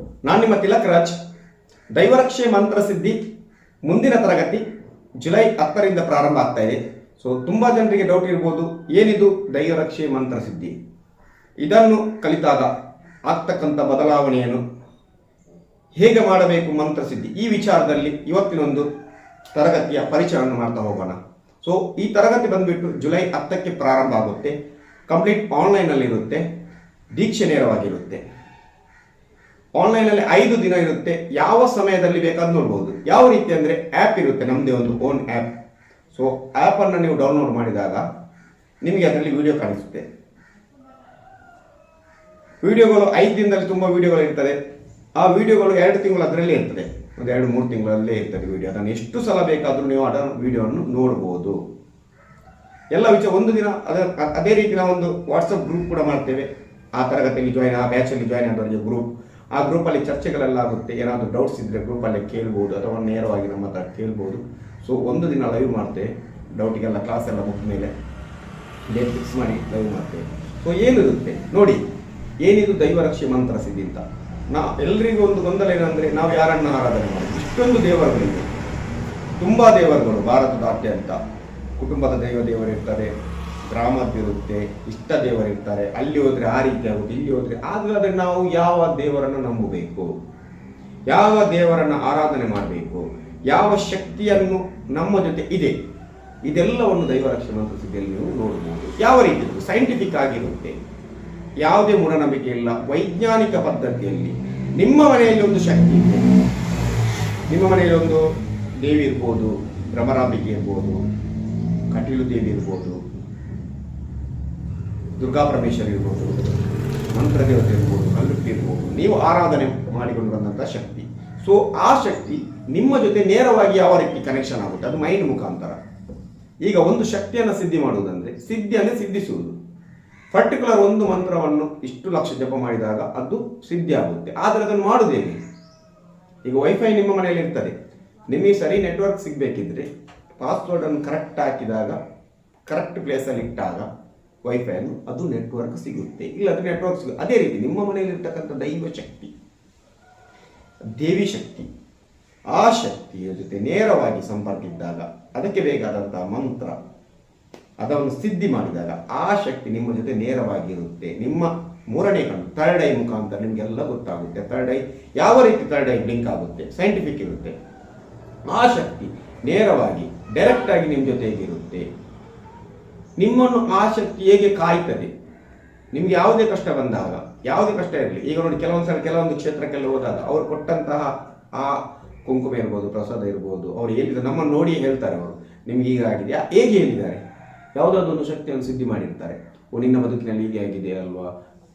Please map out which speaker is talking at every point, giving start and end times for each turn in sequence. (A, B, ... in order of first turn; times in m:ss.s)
0:00.2-0:01.2 A
0:01.9-0:03.2 A
0:03.8-0:04.6 A
0:05.2-0:10.7 A
0:11.6-0:12.7 A
0:13.3-0:14.6 A
0:16.0-0:18.9 A
0:19.5-0:24.5 A
0:25.1-0:26.4 A
0:27.2-0:28.2 A
0:29.8-0:35.6 A
0:36.1-0:38.0 A
0:38.8-0:40.0 A
0:42.6-0:44.6 A
0:45.2-0:51.6 A
0:52.9-1:07.9 A
1:08.9-1:11.8 A
1:12.4-1:18.5 A
1:19.4-1:21.2 A
1:21.8-1:23.1 A
1:23.6-1:30.1 A
1:31.1-1:35.8 A
1:36.4-1:40.8 A
1:41.6-1:46.3 A
1:47.5-1:48.2 A
1:48.8-1:51.0 A
1:51.9-1:53.0 A
1:55.2-1:56.6 A
1:57.1-2:05.8 A
2:06.7-2:09.6 A
2:10.3-2:15.4 A
2:16.5-2:17.7 A
2:18.3-2:22.0 A
2:22.7-2:23.9 A
2:24.5-2:29.3 A
2:31.0-2:31.7 A
2:32.5-2:36.8 A
2:37.8-2:47.5 A
2:48.5-2:51.9 A
2:53.2-2:55.1 A
2:55.9-3:07.2 A
3:07.8-3:11.3 A